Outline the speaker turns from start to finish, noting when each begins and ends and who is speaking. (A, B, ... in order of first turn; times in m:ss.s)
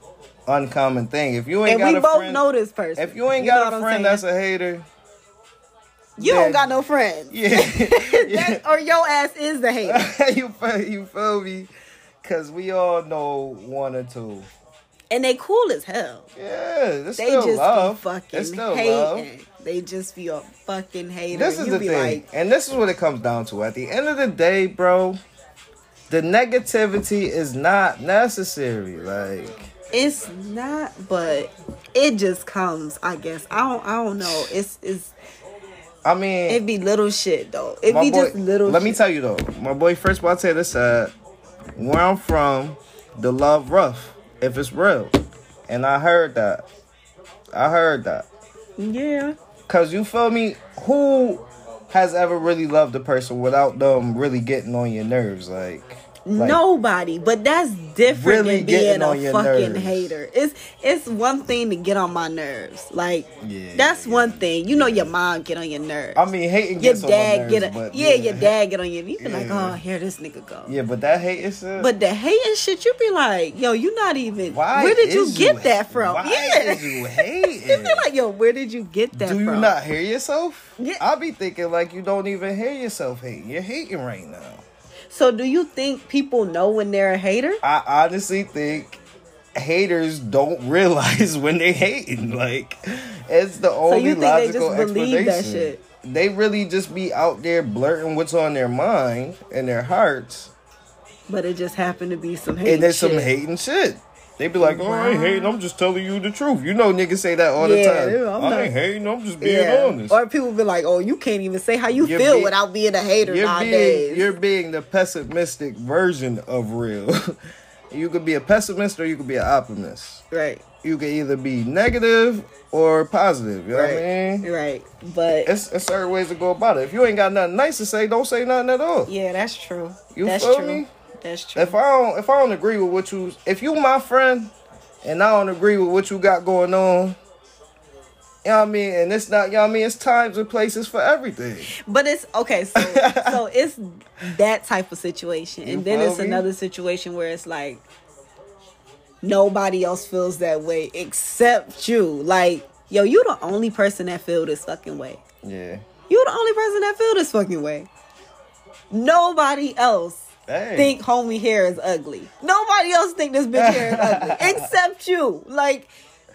0:00.5-0:02.4 A
0:01.6-0:04.2 B
0:03.0-0:04.9 A
0:06.2-0:10.1 B
0:06.2-0:06.6 A
0:07.3-0:08.6 A
0:09.8-0:11.7 A
0:12.2-0:14.5 A
0:15.1-0:16.3 B
0:16.4-0:19.3 A
0:17.2-0:22.2 B
0:21.3-0:25.2 A
0:26.1-0:29.7 A
0:29.9-0:35.1 B
0:34.2-0:34.5 A
0:36.0-0:36.6 A
0:36.5-0:39.0 B
0:37.9-0:41.1 A
0:41.8-0:45.2 A
0:45.7-0:46.7 A
0:47.5-0:48.3 A
0:48.8-0:49.4 B
0:49.7-0:56.6 A
0:56.2-1:10.8 B
0:58.1-1:00.2 A
1:03.4-1:05.1 A
1:06.2-1:08.5 A
1:09.2-1:09.8 A
1:10.7-1:11.9 A
1:11.8-1:19.8 B
1:14.5-1:18.1 A
1:19.1-1:24.6 A
1:25.1-1:27.6 B
1:27.6-1:29.0 A
1:29.6-1:40.5 A
1:33.9-1:35.8 B
1:41.3-1:43.3 B
1:42.6-1:50.2 A
1:44.6-1:45.5 B
1:47.6-1:48.7 B
1:49.4-1:54.3 B
1:51.9-1:52.5 A
1:53.2-1:57.4 A
1:57.9-2:00.2 A
2:00.3-2:00.6 B
2:00.8-2:04.5 A
2:03.7-2:05.5 B
2:05.4-2:09.1 A
2:09.1-2:11.8 B
2:10.1-2:10.9 A
2:11.6-2:14.5 A
2:15.0-2:17.2 A
2:18.4-2:21.7 A
2:21.8-2:27.8 B
2:22.8-2:23.4 A
2:25.6-2:26.5 A
2:29.2-2:35.2 B
2:35.4-2:35.8 A
2:36.1-2:37.9 B
2:38.9-2:45.9 B
2:40.5-2:41.0 A
2:43.5-2:44.7 A